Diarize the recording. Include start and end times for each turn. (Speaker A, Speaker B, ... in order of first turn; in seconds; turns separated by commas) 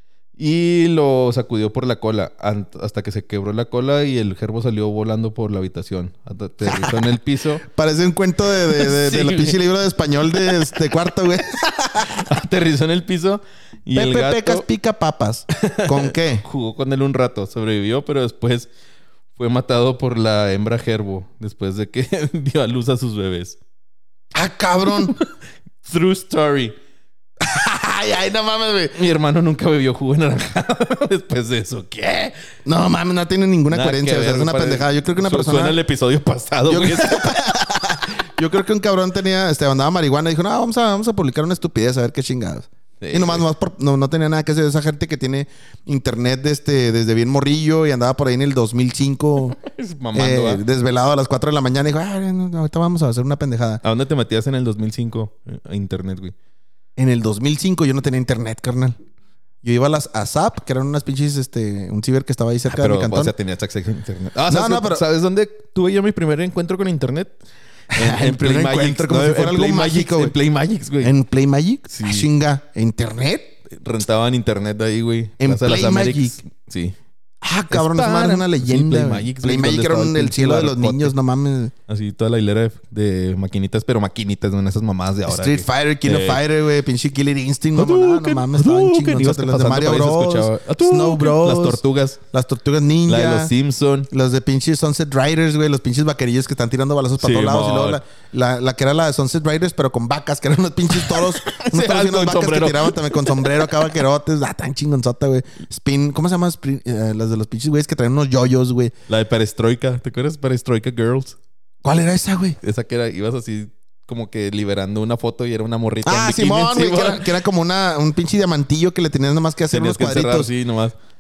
Speaker A: 0.4-7.6, Speaker B: 6.6-7.1, Speaker B: 7.6-12.3, Speaker A: 8.7-9.6, Speaker A: 10.3-10.9, Speaker A: 12.0-14.7, Speaker B: 13.9-16.4, Speaker A: 15.5-18.7, Speaker A: 19.4-23.6, Speaker B: 24.3-25.1, Speaker A: 24.9-25.3, Speaker A: 25.8-26.8, Speaker B: 27.4-29.0, Speaker A: 28.9-32.4, Speaker B: 32.7-35.8, Speaker A: 33.7-37.5, Speaker B: 36.7-49.6, Speaker A: 43.0-43.5, Speaker A: 49.5-50.6, Speaker B: 50.1-53.8, Speaker A: 53.8-56.4, Speaker B: 57.0-59.0, Speaker B: 59.6-63.3, Speaker A: 62.7-67.3, Speaker B: 64.5-65.0, Speaker B: 67.9-70.3, Speaker A: 67.9-71.1, Speaker B: 71.0-73.5, Speaker A: 71.9-72.3, Speaker A: 73.7-77.0, Speaker B: 75.4-76.4, Speaker B: 77.4-81.7, Speaker A: 77.7-81.2, Speaker A: 81.9-86.4, Speaker B: 85.3-93.5, Speaker A: 87.7-92.2, Speaker A: 93.1-94.1, Speaker B: 94.1-108.9, Speaker A: 97.2-98.0, Speaker A: 100.9-103.9, Speaker A: 109.1-111.4, Speaker B: 111.8-112.6, Speaker A: 112.6-117.3, Speaker B: 116.0-120.5, Speaker A: 119.7-121.0